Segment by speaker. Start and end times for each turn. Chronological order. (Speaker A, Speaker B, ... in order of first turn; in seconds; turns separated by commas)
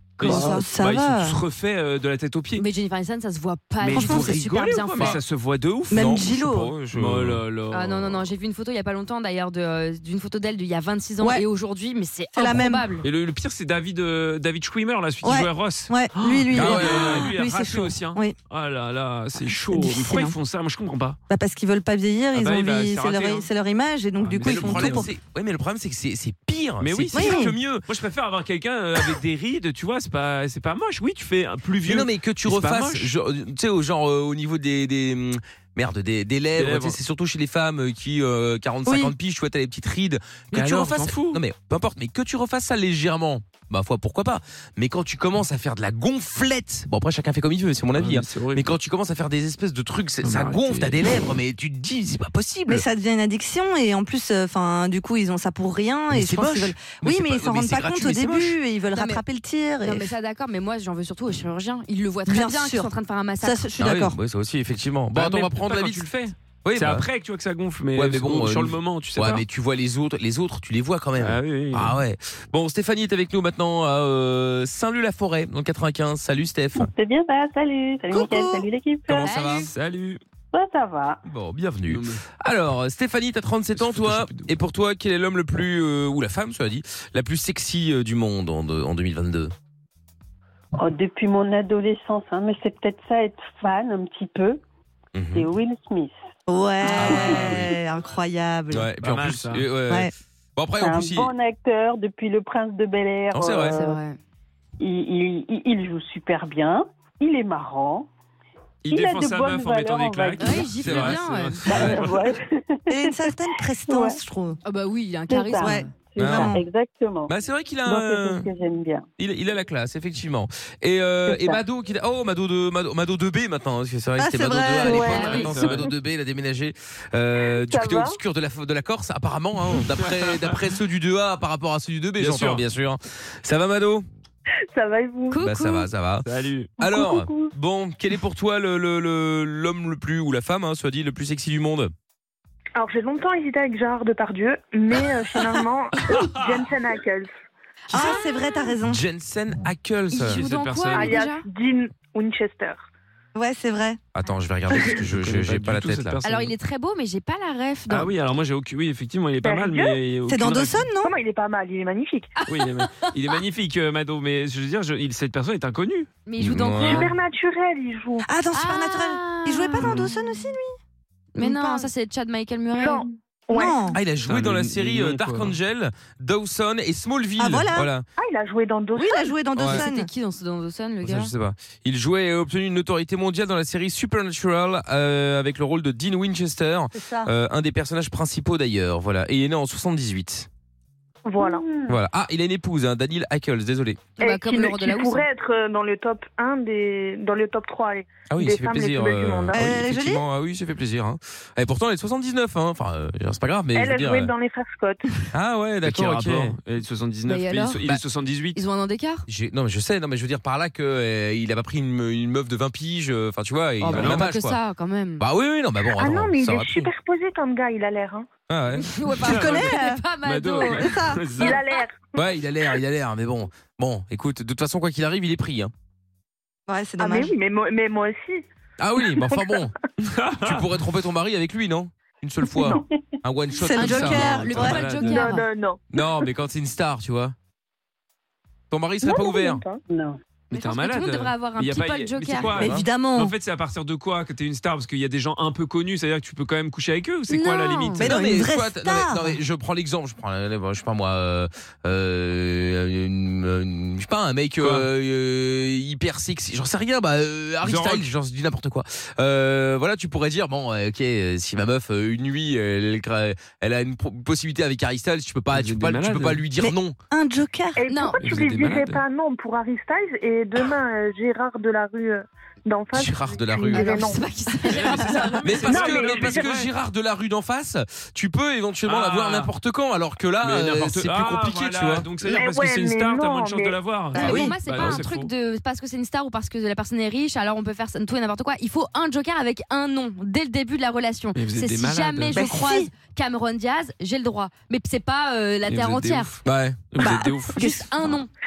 Speaker A: 0.2-2.6, Speaker B: 0.2-1.4, Speaker C: 2.6-5.2, Speaker A: 3.8-8.2, Speaker B: 3.9-4.3, Speaker D: 4.9-5.2, Speaker B: 5.9-6.7, Speaker D: 5.9-7.4, Speaker C: 7.7-13.0, Speaker B: 12.3-12.9, Speaker A: 13.0-21.2, Speaker B: 15.2-18.3, Speaker D: 16.5-17.3, Speaker B: 19.4-20.3, Speaker B: 21.3-25.1, Speaker A: 22.3-23.5, Speaker A: 24.2-25.1, Speaker D: 24.4-27.8, Speaker A: 26.8-33.1, Speaker B: 27.1-27.5, Speaker D: 31.8-52.9, Speaker A: 36.5-37.0, Speaker A: 40.5-41.4, Speaker A: 47.9-48.7, Speaker A: 50.2-51.2, Speaker B: 52.7-60.1, Speaker D: 56.1-58.6, Speaker C: 58.9-59.2, Speaker C: 59.8-63.7, Speaker B: 62.3-64.2, Speaker D: 63.8-66.1, Speaker A: 65.1-69.5, Speaker D: 66.6-67.0, Speaker D: 67.9-76.9, Speaker A: 71.2-72.0, Speaker E: 76.8-79.3, Speaker B: 78.1-78.6, Speaker D: 79.1-79.7, Speaker C: 79.2-79.7, Speaker A: 79.7-80.2, Speaker E: 80.5-81.2, Speaker D: 81.3-89.5, Speaker A: 81.9-82.2, Speaker A: 83.7-84.5, Speaker E: 90.8-94.6, Speaker D: 95.1-95.5, Speaker E: 95.3-96.2, Speaker B: 96.5-98.9, Speaker D: 97.0-97.7, Speaker D: 98.7-101.3, Speaker A: 99.0-99.7, Speaker E: 100.8-104.0, Speaker D: 103.3-103.7, Speaker C: 103.7-104.2, Speaker E: 104.8-108.1, Speaker A: 108.8-112.3, Speaker E: 108.9-110.7, Speaker C: 110.4-112.0, Speaker D: 110.8-111.9, Speaker E: 111.7-113.2, Speaker B: 112.9-114.6, Speaker E: 113.9-114.2, Speaker C: 114.6-115.9, Speaker E: 115.3-117.3, Speaker B: 115.6-116.6, Speaker D: 116.2-116.5, Speaker D: 117.3-118.5, Speaker E: 117.8-119.0, Speaker D: 119.2-134.1, Speaker E: 121.3-121.6, Speaker B: 124.2-125.4, Speaker F: 124.9-125.3, Speaker C: 124.9-125.7, Speaker A: 125.4-125.8, Speaker F: 127.6-128.2, Speaker A: 130.0-130.6, Speaker A: 132.2-132.6, Speaker F: 134.7-135.4, Speaker C: 135.3-135.9, Speaker D: 135.4-136.2, Speaker A: 136.2-136.7, Speaker D: 136.8-141.9, Speaker F: 136.8-137.5, Speaker F: 142.8-147.3, Speaker A: 146.1-146.6, Speaker C: 147.9-148.7, Speaker B: 147.9-149.0, Speaker D: 148.8-150.4, Speaker C: 150.1-151.4, Speaker A: 150.3-151.2, Speaker F: 150.9-152.9, Speaker B: 153.3-154.0, Speaker D: 154.1-156.2, Speaker A: 155.0-156.5, Speaker C: 156.2-158.1, Speaker A: 157.9-160.8, Speaker F: 159.4-160.0, Speaker B: 160.3-161.1, Speaker F: 161.0-162.3, Speaker A: 162.5-166.1, Speaker C: 162.6-163.1, Speaker C: 166.2-167.1, Speaker D: 166.4-167.1, Speaker F: 166.9-168.2, Speaker B: 168.2-170.7, Speaker C: 168.5-169.9, Speaker C: 171.3-173.0, Speaker B: 171.4-171.9, Speaker F: 172.8-173.9, Speaker B: 173.5-174.0, Speaker D: 173.9-178.0, Speaker A: 174.2-175.6, Speaker B: 177.4-177.9, Speaker F: 178.2-179.3, Speaker B: 178.9-180.1, Speaker D: 179.6-179.8, Speaker C: 179.6-181.3, Speaker D: 181.0-190.5, Speaker B: 186.9-187.3, Speaker F: 191.2-191.7, Speaker E: 191.4-192.0, Speaker D: 191.8-194.0, Speaker C: 194.2-195.2, Speaker F: 194.2-199.8, Speaker D: 198.2-204.3, Speaker B: 199.5-200.2, Speaker F: 203.7-205.0, Speaker D: 205.3-206.6, Speaker A: 205.8-208.6, Speaker C: 207.3-207.8, Speaker C: 208.5-209.2, Speaker D: 209.3-214.6, Speaker C: 213.8-215.2, Speaker A: 213.9-214.2, Speaker D: 215.2-216.9, Speaker F: 215.9-218.3, Speaker D: 218.5-218.9, Speaker C: 218.8-220.8, Speaker B: 219.2-220.0, Speaker A: 219.3-219.7, Speaker A: 220.2-221.6, Speaker B: 220.6-221.2, Speaker F: 221.3-222.1, Speaker C: 221.4-221.7, Speaker D: 222.1-225.7, Speaker B: 226.7-227.3, Speaker F: 227.0-228.4, Speaker D: 228.8-229.7, Speaker F: 229.2-229.7, Speaker A: 230.0-230.7, Speaker D: 230.4-234.8, Speaker E: 232.5-232.9, Speaker B: 233.6-234.8, Speaker C: 233.7-235.4, Speaker A: 234.0-235.3, Speaker F: 235.1-235.8, Speaker D: 235.9-237.3, Speaker D: 238.7-239.6, Speaker F: 239.0-239.8, Speaker E: 239.9-240.2, Speaker C: 240.5-242.5, Speaker A: 240.5-248.1, Speaker D: 242.5-242.8, Speaker B: 242.5-243.3, Speaker C: 247.3-248.0, Speaker B: 248.0-249.4, Speaker D: 248.0-267.0, Speaker A: 254.6-254.9, Speaker A: 257.6-258.1, Speaker A: 265.5-266.4, Speaker B: 266.6-267.8, Speaker F: 267.8-274.2, Speaker C: 267.9-268.2, Speaker A: 268.2-269.0, Speaker D: 272.9-274.0, Speaker C: 273.7-275.7, Speaker A: 274.7-276.7, Speaker D: 275.4-282.1, Speaker F: 275.7-276.4, Speaker A: 278.8-279.5, Speaker A: 280.4-285.3, Speaker F: 282.2-283.8, Speaker B: 284.1-284.5, Speaker C: 284.1-296.3, Speaker D: 284.2-285.0, Speaker A: 291.4-292.4, Speaker B: 292.3-292.9, Speaker A: 295.7-296.4, Speaker D: 296.4-296.9, Speaker A: 296.9-297.6, Speaker B: 297.0-298.2, Speaker C: 297.6-298.3